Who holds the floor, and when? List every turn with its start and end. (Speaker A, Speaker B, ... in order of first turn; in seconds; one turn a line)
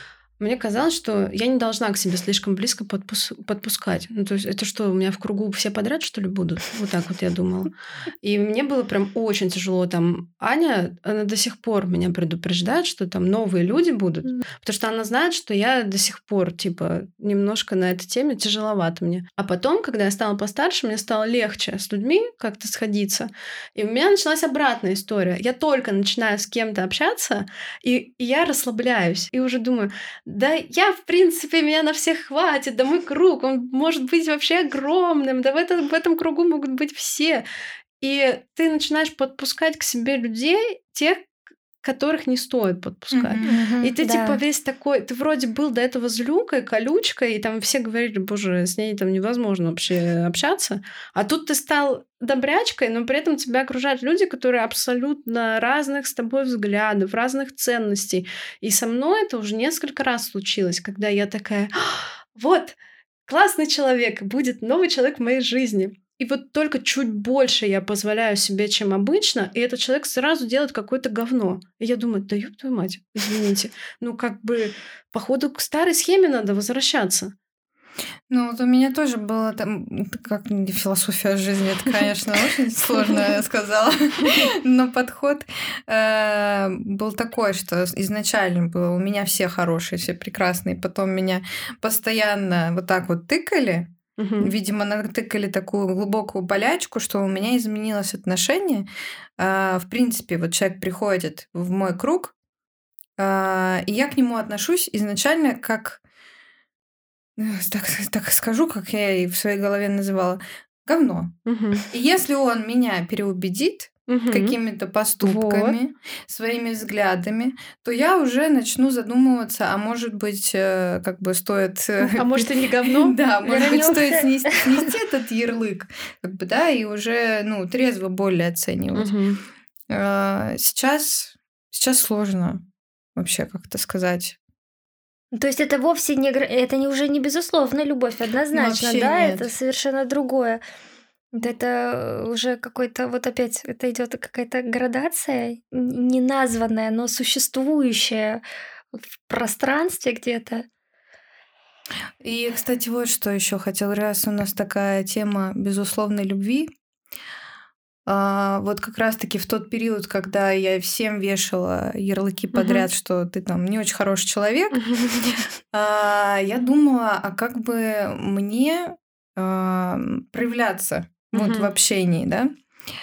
Speaker A: 0.4-37.4
Speaker A: 38.0-41.3
Speaker A: 41.8-77.3
Speaker B: 43.1-43.5
Speaker C: 43.5-44.4
Speaker B: 78.3-98.9
Speaker A: 94.2-94.5
Speaker B: 99.4-102.3
Speaker B: 103.2-106.0
Speaker B: 107.4-111.4
Speaker A: 111.5-111.8
Speaker B: 111.9-129.1
Speaker A: 114.1-114.6
Speaker A: 115.2-115.8
Speaker A: 122.0-123.2
Speaker C: 123.5-124.9
Speaker A: 128.9-129.4
Speaker B: 129.9-132.6
Speaker B: 133.2-134.4
Speaker C: 135.3-140.6
Speaker B: 138.5-139.5
Speaker C: 141.3-148.4
Speaker C: 148.9-150.7
Speaker B: 152.2-156.7
Speaker B: 158.1-172.5
Speaker A: 162.5-162.9
Speaker A: 164.8-165.4
Speaker A: 171.3-171.7